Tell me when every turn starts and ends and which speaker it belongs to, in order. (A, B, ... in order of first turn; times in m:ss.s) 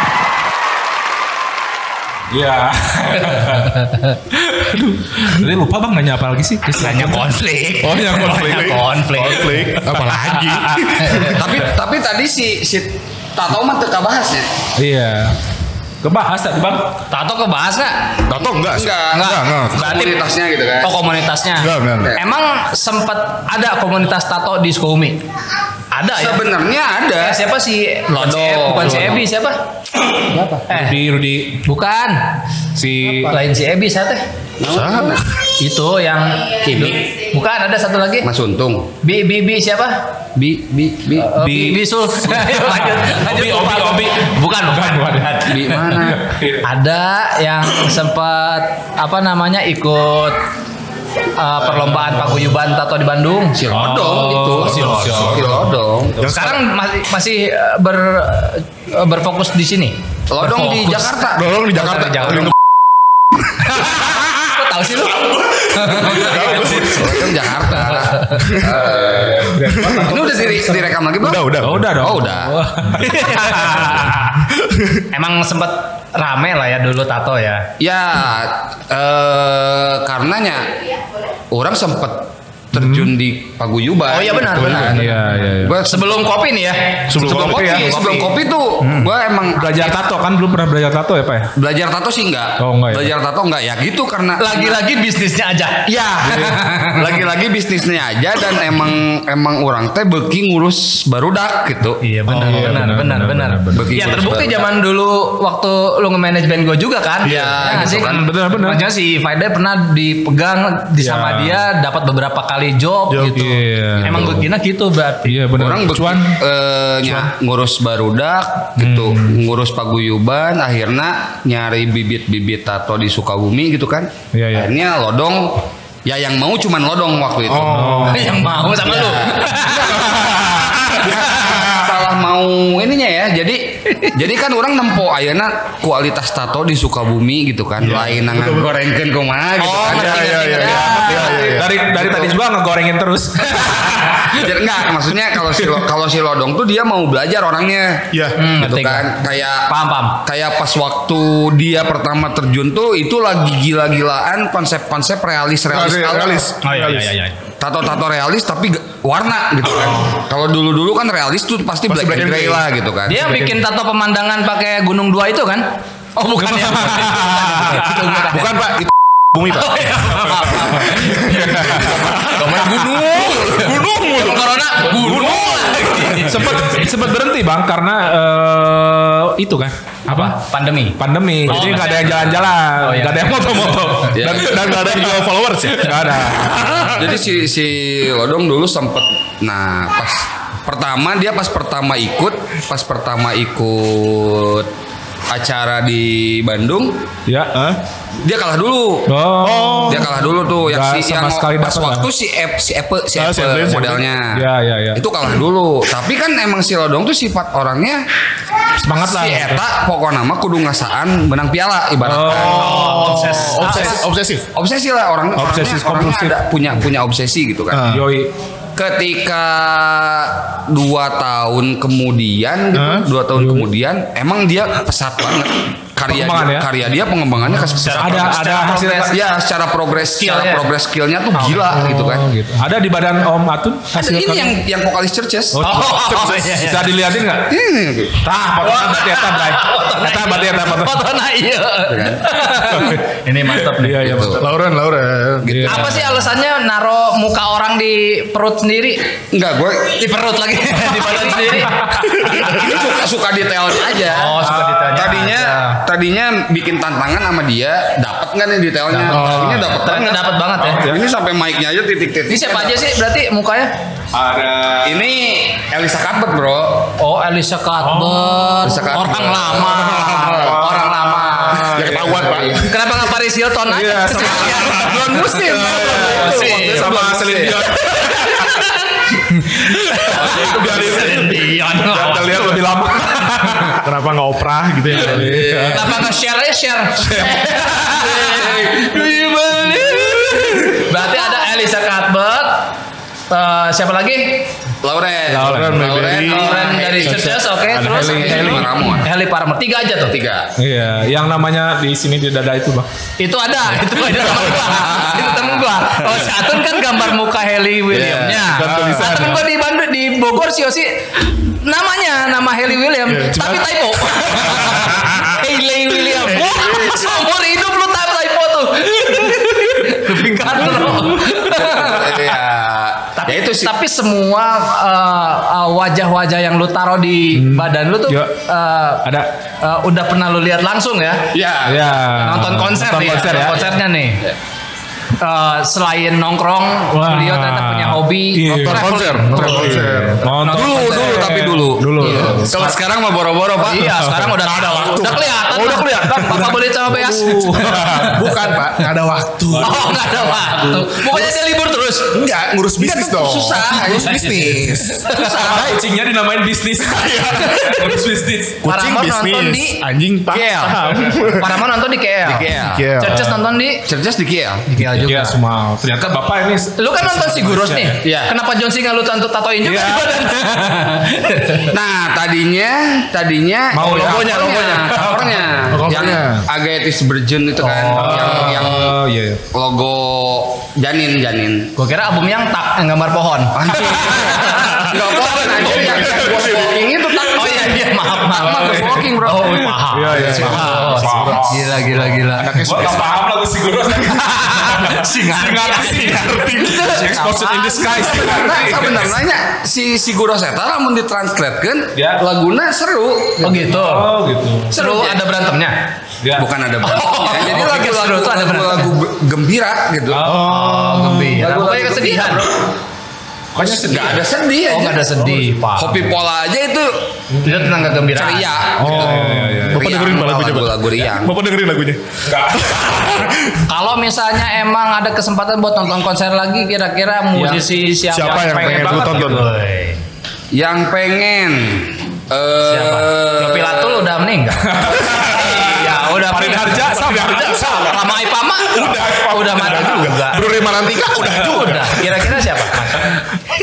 0:02.3-0:07.2 A
0:03.2-0:04.2 B
0:06.7-0:09.9 B
0:07.8-0:08.8 A
0:08.3-0:11.6 C
0:09.8-0:11.3 A
0:10.9-0:11.4 B
0:11.3-0:14.5 D
0:14.8-0:15.4 A
0:16.0-0:17.0 A
0:17.1-0:18.3 B
0:18.3-0:19.9 C
0:18.7-0:21.1 D
0:19.2-0:20.2 B
0:20.8-0:25.2 B
0:21.6-0:22.1 C
0:22.0-0:22.2 D
0:25.9-0:26.5 B
0:26.2-0:27.4 D
0:27.2-0:29.6 B
0:28.1-0:29.3 D
0:30.3-0:30.7 D
0:30.7-0:31.0 B
0:30.7-0:31.6 A
0:31.6-0:32.4 B
0:32.8-0:33.4 A
0:33.1-0:34.2 B
0:34.6-0:35.2 D
0:34.7-0:35.2 C
0:35.6-0:38.3 B
0:36.6-0:37.0 D
0:38.2-0:38.9 D
0:39.0-0:40.0 B
0:40.4-0:41.4 D
0:41.2-0:50.4 B
0:41.4-0:46.7 A
0:45.5-0:46.3 D
0:51.4-0:55.3 B
0:51.8-0:52.5 A
0:53.6-0:56.2 D
0:53.7-0:55.7 A
0:56.2-0:56.6 C
0:56.3-1:01.1 B
1:00.3-1:02.1 D
1:01.3-1:02.6 C
1:01.8-1:02.5 B
1:03.6-1:06.7 B
1:05.8-1:07.1 A
1:06.0-1:07.3 C
1:06.6-1:12.5 D
1:08.4-1:08.8 C
1:08.9-1:10.7 A
1:09.6-1:12.0 C
1:11.5-1:14.1 A
1:13.0-1:14.4 B
1:14.5-1:15.0 C
1:15.1-1:17.7 B
1:17.8-1:20.8 D
1:21.5-1:26.3 D
1:22.8-1:23.1 A
1:24.1-1:29.1 B
1:24.6-1:25.8 A
1:27.1-1:27.9 A
1:27.1-1:30.1 D
1:27.2-1:27.6 C
1:29.5-1:31.5 A
1:31.6-1:34.8 D
1:32.6-1:33.1 A
1:34.4-1:37.3 B
1:35.9-1:42.0 D
1:42.0-1:55.4 B
1:42.3-1:43.9 A
1:43.7-1:44.7 D
1:47.2-1:48.3 D
1:47.2-1:47.6 C
1:47.9-1:48.8 A
1:51.0-1:51.6 A
1:53.1-1:53.5 C
1:53.3-1:54.5 A
1:54.0-1:54.4 C
1:55.3-1:56.4 A
1:55.6-2:22.3 D
1:57.0-1:57.3 C
1:58.8-1:59.4 A
2:04.3-2:04.7 A
2:07.5-2:08.7 A
2:07.5-2:08.2 C
2:08.1-2:10.2 B
2:10.3-2:11.1 C
2:17.8-2:18.8 C
2:19.6-2:21.8 C
2:19.9-2:21.6 B
2:20.6-2:24.5 A
2:24.3-2:29.7 D
2:25.4-2:25.8 A
2:28.1-2:28.4 C
2:28.4-2:30.2 B
2:30.2-2:36.4 D
2:35.7-2:37.1 C
2:36.6-2:37.4 B
2:37.6-2:43.4 D
2:41.9-2:42.6 C
2:43.1-2:48.6 B
2:46.5-2:47.7 A
2:47.7-2:56.5 C
2:49.5-2:56.7 B
2:50.6-2:52.0 A
2:56.3-3:00.4 A
3:00.1-3:04.1 B
3:01.0-3:07.1 A
3:04.1-3:07.2 C
3:04.1-3:04.7 D
3:06.9-3:14.7 D
3:15.3-3:17.0 D
3:17.3-3:17.5 A
3:17.5-3:17.8 C
3:18.2-3:19.1 D
3:19.1-3:20.1 A
3:19.4-3:20.1 C
3:19.9-3:28.0 D
3:20.6-3:22.1 A
3:23.2-3:24.0 C
3:24.3-3:25.0 A
3:28.8-3:29.6 A
3:29.0-3:34.0 D
3:32.0-3:32.7 A
3:32.3-3:34.5 C
3:32.4-3:34.0 B
3:34.5-3:37.9 D
3:35.4-3:36.8 A
3:37.7-3:38.1 C
3:37.9-3:38.3 A
3:38.8-3:48.3 D
3:42.7-3:43.1 C
3:43.4-3:43.7 A
3:46.1-3:46.7 A
3:47.8-3:49.2 B
3:47.8-3:49.2 A
3:49.1-3:52.3 D
3:50.2-3:50.7 B
3:51.3-3:51.9 B
3:51.7-3:54.6 A
3:54.0-3:55.7 D
3:55.5-3:57.5 A
3:55.6-3:56.9 B
3:57.5-3:58.2 D
3:58.2-4:01.0 A
3:58.6-4:04.3 B
4:01.9-4:02.9 D
4:02.7-4:03.0 A
4:03.5-4:04.4 A
4:04.0-4:04.4 D
4:04.4-4:05.7 C
4:05.4-4:06.0 D
4:05.5-4:06.2 A
4:05.7-4:09.1 B
4:09.3-4:10.2 D
4:10.0-4:12.6 B
4:12.1-4:12.5 C
4:12.3-4:22.8 D
4:14.0-4:15.8 B
4:14.4-4:15.0 A
4:19.0-4:19.7 C
4:19.0-4:20.8 B
4:22.3-4:23.7 B
4:24.1-4:25.0 A
4:24.8-4:26.9 D
4:27.0-4:31.8 B
4:27.8-4:28.7 A
4:28.6-4:30.4 D
4:29.9-4:32.6 A
4:30.0-4:30.6 C
4:31.5-4:32.8 C
4:32.6-4:35.2 B
4:33.7-4:38.7 A
4:34.3-4:37.8 D
4:36.0-4:37.0 B
4:37.8-4:43.7 B
4:39.6-4:43.8 A
4:40.4-4:41.0 C
4:43.8-4:45.4 C
4:44.9-4:46.0 A
4:45.0-4:46.1 D
4:45.7-4:52.7 B
4:47.1-4:47.9 A
4:48.0-4:49.8 D
4:50.2-4:50.6 A
4:53.3-4:54.5 B
4:54.8-4:59.1 D
4:55.3-4:55.9 A
4:55.4-4:57.3 C
4:56.1-5:00.2 B
4:57.7-4:58.7 A
5:00.1-5:00.5 D
5:00.6-5:02.9 A
5:03.2-5:22.3 B
5:04.7-5:06.3 D
5:07.9-5:09.4 C
5:13.1-5:13.6 C
5:14.4-5:15.4 C
5:16.2-5:17.2 C
5:20.1-5:21.0 C
5:21.3-5:23.7 D
5:23.2-5:29.1 B
5:27.3-5:28.3 A
5:29.6-5:31.3 B
5:31.3-5:32.2 D
5:31.6-5:33.7 A
5:32.2-5:34.2 B
5:33.2-5:33.6 D
5:35.2-5:41.4 B
5:36.9-5:42.6 A
5:38.6-5:40.3 C
5:40.5-5:44.0 D
5:42.0-5:42.5 B
5:43.6-5:48.9 B
5:44.4-5:51.4 C
5:47.1-5:47.9 A
5:49.5-5:52.2 B
5:52.1-5:55.0 C
5:52.8-5:54.9 D
5:53.8-5:58.6 A
5:54.1-5:55.8 B
5:56.9-5:57.9 C
5:58.6-6:01.6 C
5:58.7-5:59.8 B
6:00.3-6:01.2 D
6:00.8-6:01.1 A
6:01.3-6:03.8 B
6:02.2-6:02.9 D
6:02.7-6:03.2 C
6:03.1-6:03.4 A
6:03.9-6:04.6 D
6:04.7-6:05.4 B
6:04.9-6:08.0 A
6:06.8-6:11.7 B
6:08.0-6:08.3 D
6:09.6-6:10.3 A
6:11.7-6:19.0 D
6:13.8-6:14.3 A
6:13.8-6:15.6 B
6:15.7-6:16.5 C
6:17.6-6:18.8 B
6:17.9-6:19.4 A
6:19.5-6:21.7 D
6:21.8-6:25.4 B
6:23.5-6:29.7 D
6:23.9-6:24.2 A
6:24.6-6:27.0 C
6:25.7-6:26.1 A
6:27.3-6:32.6 B
6:28.4-6:39.2 A
6:30.1-6:33.2 C
6:34.0-6:38.3 B
6:36.0-6:36.9 C
6:38.1-6:43.6 D
6:42.0-6:42.2 A
6:43.4-6:44.1 B
6:43.5-6:44.8 A
6:44.7-6:45.8 B
6:44.7-6:45.2 D
6:46.2-6:46.5 A
6:46.4-6:50.2 D
6:46.8-6:48.9 B
6:50.1-6:50.5 A
6:50.2-6:51.4 C
6:50.3-6:52.6 B
6:51.4-6:52.6 D
6:53.5-6:54.3 A
6:53.6-6:55.1 D
6:54.7-6:56.2 B
6:55.8-6:56.9 D
6:57.3-6:58.0 A
6:57.4-6:58.6 B
6:57.5-7:01.3 D
6:58.8-6:59.9 A
6:58.8-7:03.6 C
7:02.2-7:03.2 A
7:03.7-7:10.0 B
7:07.4-7:09.5 A
7:08.1-7:09.4 C
7:10.5-7:14.1 D
7:12.6-7:20.4 B
7:14.6-7:18.2 A
7:17.1-7:18.0 C
7:18.7-7:20.5 A
7:19.1-7:22.2 C
7:21.2-7:21.9 A
7:21.3-7:23.2 B